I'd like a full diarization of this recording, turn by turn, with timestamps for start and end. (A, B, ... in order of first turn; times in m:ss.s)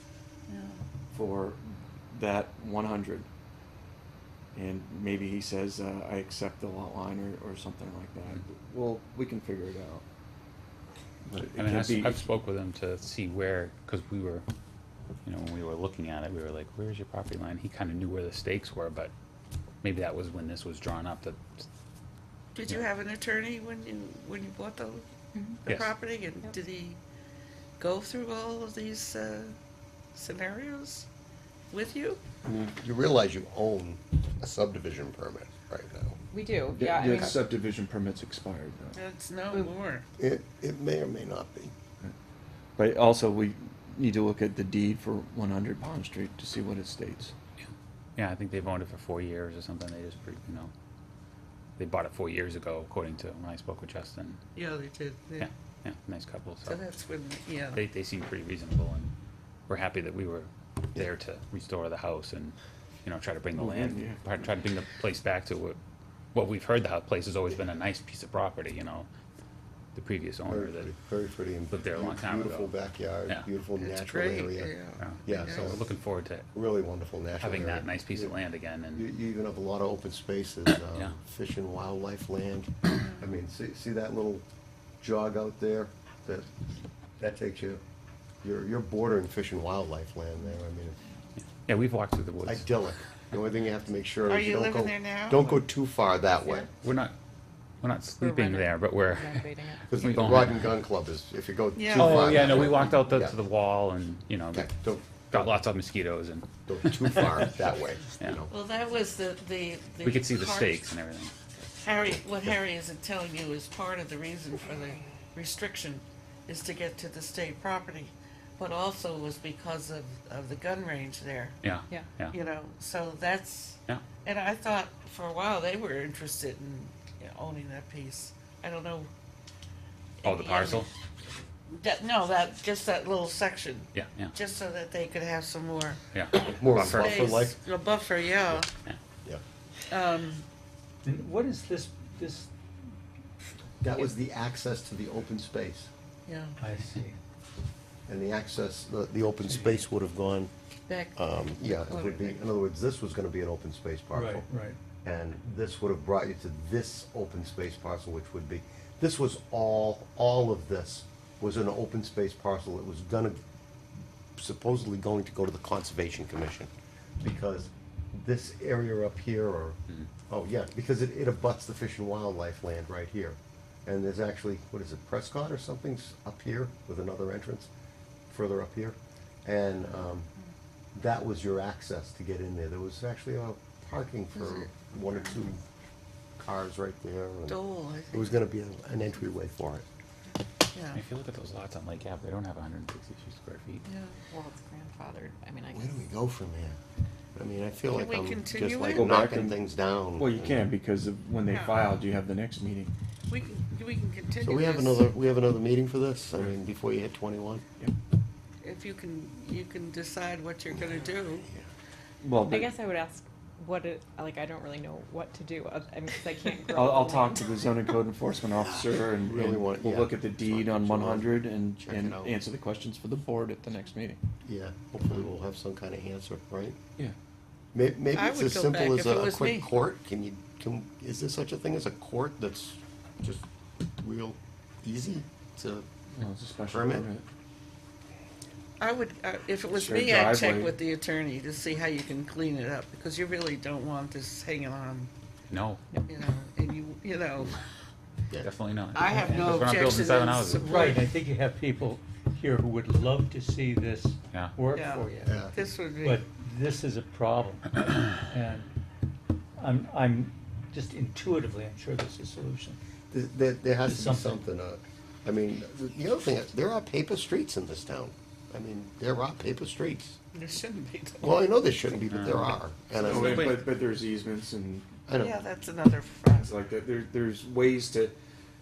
0:00.5-0:00.8 A
0:01.1-0:03.3 B
0:04.6-0:10.0 B
0:11.2-0:12.2 B
0:11.6-0:14.4 C
0:15.2-0:19.1 C
0:19.8-0:21.7 C
0:22.6-0:25.1 A
0:25.4-0:25.6 D
0:25.7-0:27.0 A
0:25.7-0:25.9 C
0:27.8-0:29.6 A
0:30.1-0:31.1 A
0:31.7-0:32.2 A
0:32.4-0:36.2 E
0:36.3-0:37.3 D
0:36.7-0:39.0 B
0:39.0-0:40.0 A
0:40.2-0:41.7 E
0:42.8-0:47.3 B
0:47.6-0:50.7 C
0:51.8-0:54.4 C
0:54.6-0:55.5 A
0:55.4-0:56.8 C
0:56.6-0:57.8 A
0:57.7-0:59.1 C
0:59.7-1:05.8 C
1:03.5-1:04.2 B
1:06.3-1:09.1 C
1:10.0-1:10.9 C
1:10.5-1:14.7 E
1:11.7-1:12.7 C
1:13.8-1:15.8 A
1:15.0-1:16.5 C
1:15.2-1:15.9 E
1:16.5-1:18.4 E
1:17.4-1:19.1 C
1:18.9-1:24.4 E
1:25.0-1:26.5 E
1:27.2-1:27.8 E
1:28.4-1:31.0 E
1:31.7-1:32.7 C
1:32.4-1:36.7 E
1:34.3-1:35.4 A
1:36.4-1:36.7 D
1:36.8-1:37.1 C
1:37.8-1:40.8 C
1:38.2-1:40.0 D
1:39.9-1:43.4 E
1:41.8-1:42.8 A
1:41.9-1:47.3 C
1:44.5-1:45.6 E
1:46.7-1:48.5 E
1:48.2-1:48.4 C
1:48.5-1:50.9 A
1:50.0-1:51.3 C
1:51.7-2:01.6 A
2:01.6-2:02.4 C
2:02.3-2:09.1 A
2:10.2-2:10.9 A
2:10.2-2:10.9 C
2:11.7-2:16.1 A
2:13.9-2:14.3 C
2:16.1-2:17.5 C
2:16.4-2:17.6 E
2:16.9-2:18.7 A
2:19.9-2:20.5 A
2:21.0-2:22.5 F
2:23.8-2:25.9 E
2:26.3-2:26.6 A
2:26.6-2:27.2 F
2:28.1-2:30.5 E
2:29.4-2:29.8 F
2:30.9-2:32.4 A
2:31.2-2:34.5 E
2:34.1-2:34.8 F
2:35.0-2:43.4 E
2:44.4-2:57.7 E
2:58.3-3:00.3 E
3:00.9-3:05.6 E
3:04.4-3:05.3 A
3:06.4-3:07.6 E
3:07.5-3:08.4 A
3:08.1-3:09.8 E
3:10.7-3:11.0 A
3:10.9-3:13.8 C
3:13.9-3:14.2 A
3:14.2-3:16.1 D
3:15.7-3:16.8 E
3:17.4-3:20.7 E
3:17.9-3:19.4 A
3:18.9-3:19.6 B
3:20.2-3:22.9 B
3:21.5-3:21.9 A
3:23.3-3:25.0 A
3:24.4-3:27.6 E
3:28.6-3:31.5 A
3:30.7-3:31.7 E
3:32.2-3:32.8 B
3:32.4-3:37.7 D
3:36.7-3:44.2 B
3:38.6-3:42.4 E
3:44.4-3:46.8 E
3:47.7-3:53.5 E
3:48.2-3:49.7 A
3:54.0-3:55.9 E
3:56.2-3:57.2 B
3:56.7-3:57.1 E
3:58.8-4:05.1 A
3:59.7-4:00.8 B
4:05.5-4:05.8 C
4:06.1-4:07.6 A
4:08.4-4:10.8 C
4:08.9-4:11.1 A
4:09.1-4:09.6 F
4:10.6-4:18.7 F
4:14.7-4:16.2 A
4:15.2-4:15.6 E
4:19.6-4:22.8 F
4:23.1-4:30.2 E
4:23.8-4:24.4 F
4:30.3-4:31.4 A
4:31.2-4:33.6 E
4:32.1-4:32.6 C
4:33.0-4:34.9 B
4:33.1-4:33.6 C
4:35.1-4:35.4 E
4:35.2-4:36.5 A
4:36.3-4:38.2 B